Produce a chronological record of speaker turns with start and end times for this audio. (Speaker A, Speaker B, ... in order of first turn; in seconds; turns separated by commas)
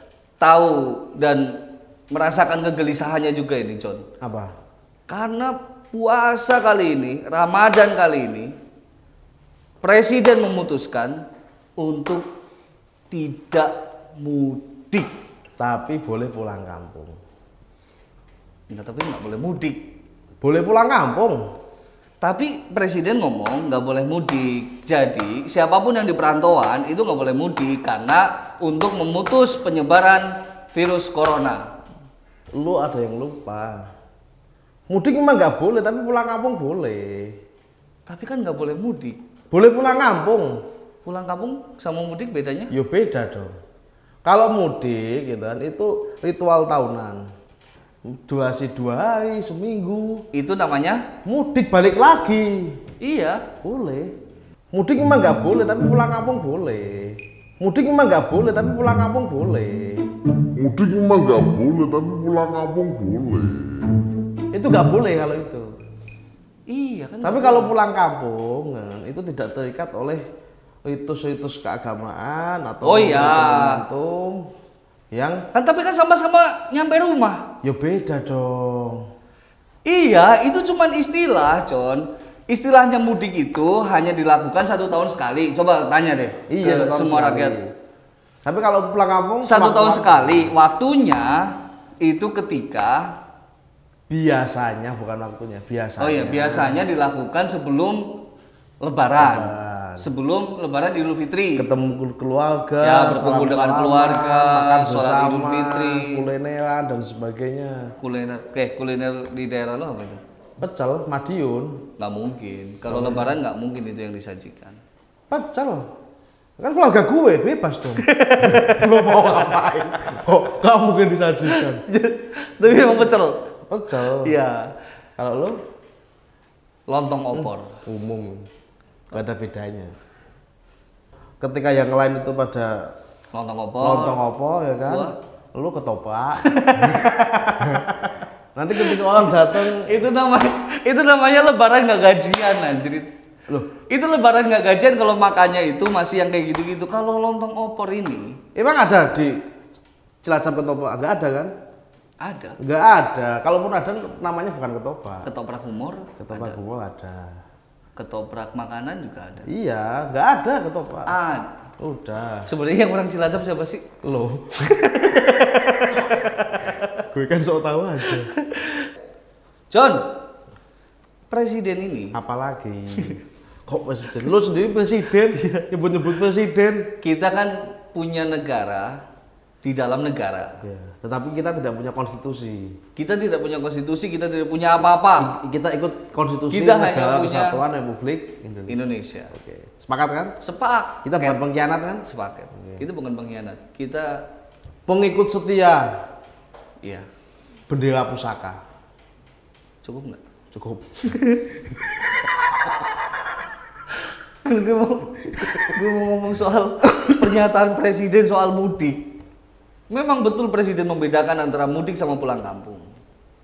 Speaker A: 0.4-1.6, Speaker A: 2.1-4.0, Speaker B: 4.2-4.5, Speaker A: 5.1-8.5, Speaker A: 9.8-11.2, Speaker A: 11.8-12.2, Speaker A: 13.1-15.1, Speaker B: 15.6-17.1, Speaker A: 18.7-19.8, Speaker B: 20.4-21.4, Speaker A: 22.2-31.6, Speaker B: 32.5-33.9, Speaker B: 34.9-37.3, Speaker A: 38.1-39.1, Speaker B: 39.5-40.5, Speaker A: 41.0-42.7, Speaker B: 42.7-43.5, Speaker B: 44.2-47.2, Speaker B: 48.1-50.2, Speaker A: 50.3-51.0, Speaker B: 51.2-52.7, Speaker A: 53.0-53.4, Speaker B: 53.6-54.1, Speaker B: 54.7-60.0, Speaker C: 60.5-64.0, Speaker B: 64.5-65.8, Speaker A: 66.7-67.7, Speaker B: 67.2-70.2, Speaker B: 70.8-74.5, Speaker A: 72.8-73.8, Speaker B: 75.1-75.4, Speaker A: 75.5-77.4, Speaker B: 77.6-79.0, Speaker A: 79.8-87.6, Speaker B: 86.5-87.7, Speaker B: 88.4-90.5, Speaker A: 89.4-91.4, Speaker A: 92.0-93.1, Speaker B: 94.1-96.8, Speaker A: 96.0-98.1, Speaker A: 98.8-101.7, Speaker B: 99.2-100.1, Speaker B: 101.6-107.9, Speaker A: 102.8-106.3, Speaker A: 108.0-110.2, Speaker B: 110.6-111.8, Speaker A: 112.0-114.8, Speaker B: 112.9-113.3, Speaker B: 115.3-115.9, Speaker B: 116.6-121.8, Speaker A: 118.0-119.4, Speaker A: 121.5-123.4, Speaker B: 123.7-124.3, Speaker A: 124.0-124.7, Speaker B: 125.2-125.6, Speaker A: 126.9-127.8, Speaker B: 127.3-128.4, Speaker B: 129.1-129.9, Speaker B: 131.4-132.9, Speaker A: 133.3-134.2, Speaker B: 133.8-137.1, Speaker A: 134.8-135.1, Speaker A: 136.4-138.1, Speaker B: 138.5-140.0, Speaker A: 138.8-143.1, Speaker A: 143.9-148.4, Speaker B: 148.5-149.3, Speaker B: 150.2-151.5, Speaker A: 152.2-152.6, Speaker B: 152.6-155.3, Speaker A: 155.2-156.6, Speaker B: 156.2-157.3, Speaker A: 157.9-159.5, Speaker B: 159.4-161.2, Speaker A: 161.1-161.5, Speaker B: 161.8-162.5, Speaker A: 162.4-163.8, Speaker B: 164.0-164.8, Speaker A: 164.6-167.0, Speaker B: 166.0-166.3, Speaker B: 167.0-168.3, Speaker A: 168.1-168.9, Speaker A: 169.7-170.0, Speaker A: 171.3-172.2, Speaker B: 172.1-176.9, Speaker A: 175.3-175.7, Speaker A: 177.0-179.0, Speaker A: 179.6-180.6, Speaker B: 180.6-182.7, Speaker A: 182.9-185.3, Speaker B: 185.2-190.3, Speaker A: 186.5-187.6, Speaker A: 188.7-189.3, Speaker A: 190.4-191.4, Speaker B: 191.0-192.0, Speaker A: 192.0-194.2, Speaker B: 192.6-192.8, Speaker B: 194.9-195.9, Speaker B: 197.7-198.6, Speaker A: 199.8-200.2, Speaker B: 200.5-201.2, Speaker A: 201.0-201.5, Speaker A: 204.4-209.0, Speaker A: 209.9-212.8